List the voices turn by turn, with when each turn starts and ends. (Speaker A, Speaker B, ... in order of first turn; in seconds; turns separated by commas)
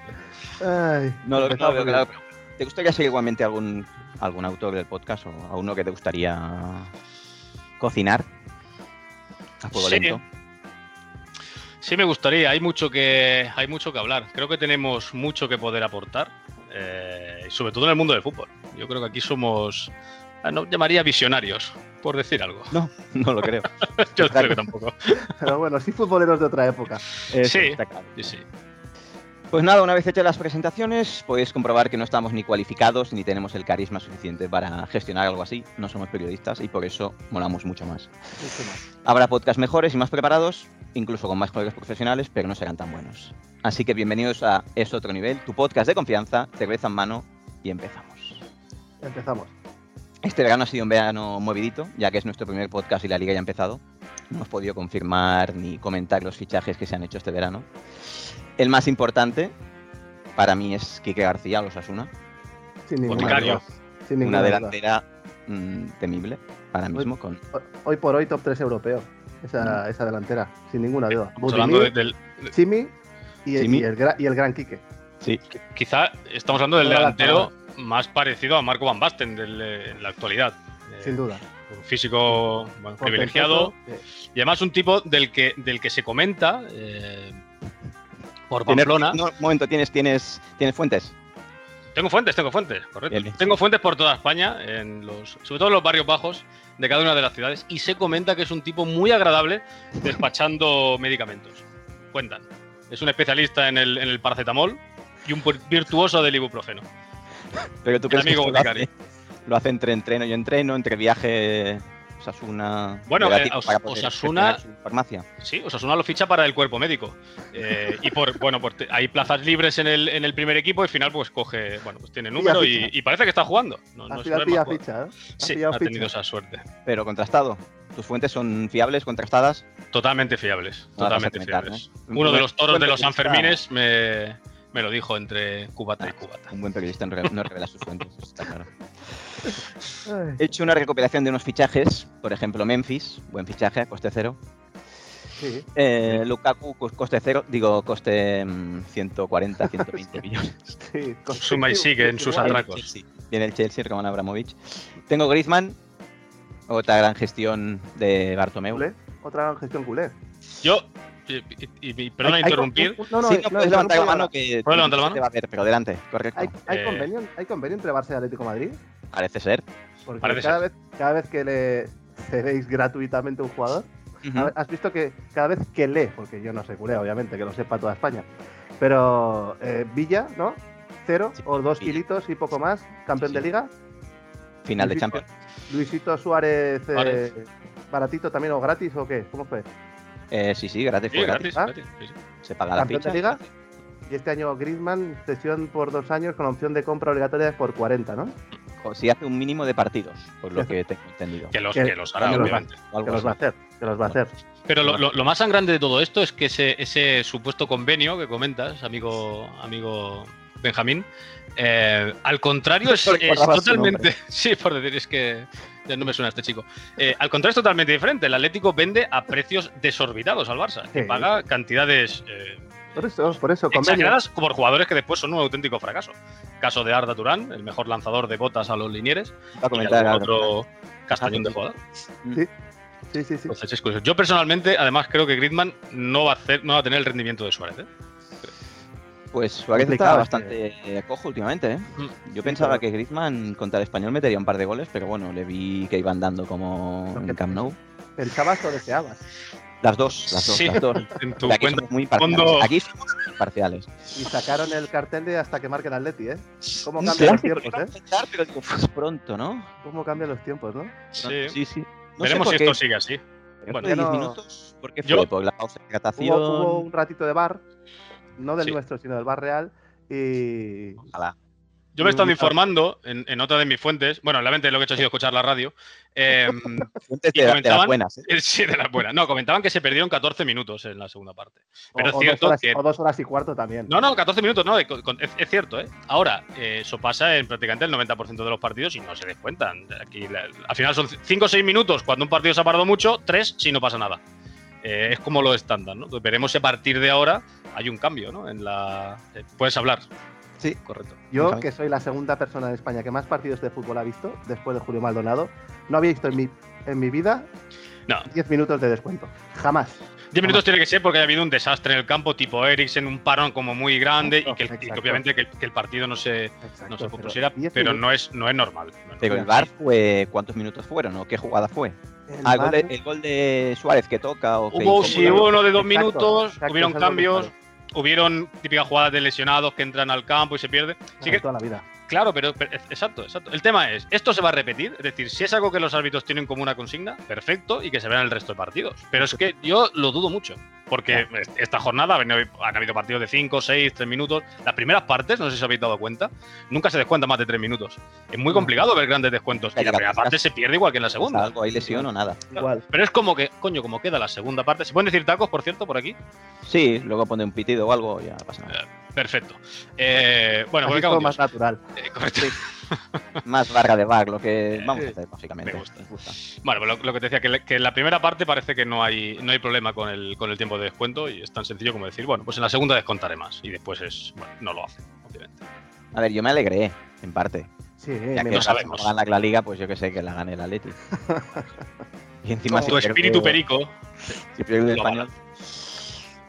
Speaker A: 0.6-2.0, Speaker B: 1.2-6.9, Speaker B: 7.8-8.3, Speaker B: 9.6-10.2, Speaker C: 9.7-10.2, Speaker C: 11.8-19.9, Speaker C: 20.4-22.7, Speaker B: 22.7-24.6, Speaker C: 23.8-25.2, Speaker A: 25.3-27.0, Speaker B: 27.3-28.1, Speaker C: 27.3-28.4, Speaker B: 29.5-38.1, Speaker A: 38.4-38.8, Speaker B: 39.0-48.4, Speaker A: 49.0-49.5, Speaker B: 50.2-59.5, Speaker B: 60.4-62.1, Speaker A: 62.9-64.7, Speaker C: 63.0-63.6, Speaker B: 63.1-63.6, Speaker B: 64.2-67.4, Speaker A: 66.9-71.9, Speaker C: 71.3-72.5, Speaker A: 72.5-72.9, Speaker A: 73.4-74.8, Speaker B: 73.5-73.8, Speaker C: 75.5-81.2, Speaker A: 76.8-77.5, Speaker A: 81.0-81.4, Speaker C: 81.7-83.7, Speaker A: 83.0-84.0, Speaker C: 84.3-87.4, Speaker C: 88.5-89.2, Speaker B: 88.7-91.1, Speaker C: 91.9-106.8, Speaker B: 93.1-93.4, Speaker B: 107.8-108.9, Speaker C: 108.1-108.9, Speaker B: 109.5-115.2, Speaker C: 113.1-114.6, Speaker C: 115.4-124.8, Speaker A: 122.4-122.9, Speaker A: 124.1-126.1, Speaker C: 125.4-126.6, Speaker B: 126.8-129.6, Speaker C: 129.9-136.5, Speaker B: 131.0-133.6, Speaker B: 136.0-138.7, Speaker A: 140.1-140.4, Speaker B: 140.4-144.4, Speaker A: 145.4-145.7, Speaker B: 145.7-150.7, Speaker A: 150.8-152.6, Speaker C: 151.4-152.8, Speaker B: 152.3-155.8, Speaker B: 156.7-158.8, Speaker A: 158.7-160.1, Speaker C: 160.6-163.0, Speaker A: 162.2-164.3, Speaker B: 163.2-166.5, Speaker C: 164.7-165.2, Speaker A: 166.3-168.8, Speaker C: 166.7-167.1, Speaker B: 169.1-169.6, Speaker A: 170.1-178.3, Speaker C: 170.2-170.6, Speaker B: 174.2-174.5, Speaker A: 178.8-183.7, Speaker B: 184.6-185.2, Speaker A: 184.8-189.7, Speaker C: 186.9-187.2, Speaker B: 190.3-191.5, Speaker C: 191.1-192.2, Speaker B: 192.4-193.4, Speaker A: 192.8-193.4, Speaker A: 194.1-198.3, Speaker B: 198.8-201.5, Speaker C: 201.5-202.8, Speaker A: 201.7-204.3, Speaker B: 202.2-203.3, Speaker C: 204.7-211.0, Speaker C: 211.6-222.7, Speaker A: 213.0-214.1, Speaker A: 220.9-221.3, Speaker A: 222.9-224.2, Speaker C: 223.7-231.8, Speaker B: 229.6-230.5, Speaker B: 231.1-231.6, Speaker A: 233.1-233.5, Speaker C: 233.5-237.9, Speaker B: 239.3-247.8, Speaker A: 239.8-240.6, Speaker A: 242.4-242.8, Speaker A: 247.1-247.6, Speaker A: 248.2-249.2, Speaker B: 249.8-253.9, Speaker C: 250.3-252.7, Speaker A: 254.1-257.9, Speaker B: 257.0-259.7, Speaker A: 259.8-260.9, Speaker C: 261.1-261.6, Speaker B: 261.2-262.8, Speaker C: 262.2-263.9, Speaker B: 263.6-266.9, Speaker A: 263.8-264.4, Speaker A: 266.2-267.6, Speaker A: 268.4-271.0, Speaker C: 271.9-282.8, Speaker A: 272.0-272.5, Speaker B: 277.0-278.2, Speaker A: 281.9-283.9, Speaker C: 283.9-294.2, Speaker C: 294.8-300.0, Speaker C: 300.8-301.2, Speaker A: 301.3-307.5, Speaker B: 301.4-301.6, Speaker A: 308.3-310.6, Speaker C: 310.3-319.6, Speaker A: 314.2-315.2, Speaker A: 316.6-318.0, Speaker B: 319.2-325.5, Speaker A: 322.3-322.9, Speaker C: 324.7-331.4, Speaker A: 325.0-327.5, Speaker A: 331.2-331.8, Speaker C: 332.0-351.5, Speaker B: 349.8-350.4, Speaker B: 351.2-352.5, Speaker A: 351.9-352.8, Speaker C: 352.5-356.2, Speaker B: 356.6-358.8, Speaker C: 358.7-361.4, Speaker A: 360.9-361.8, Speaker C: 361.9-363.2, Speaker B: 363.4-366.4, Speaker C: 365.6-375.6, Speaker B: 376.1-377.7, Speaker A: 378.0-378.7, Speaker B: 378.3-381.0, Speaker C: 378.4-379.1, Speaker A: 381.1-381.7, Speaker B: 382.4-383.6, Speaker A: 382.7-383.5, Speaker C: 382.8-383.9, Speaker B: 384.5-385.3, Speaker C: 384.9-385.2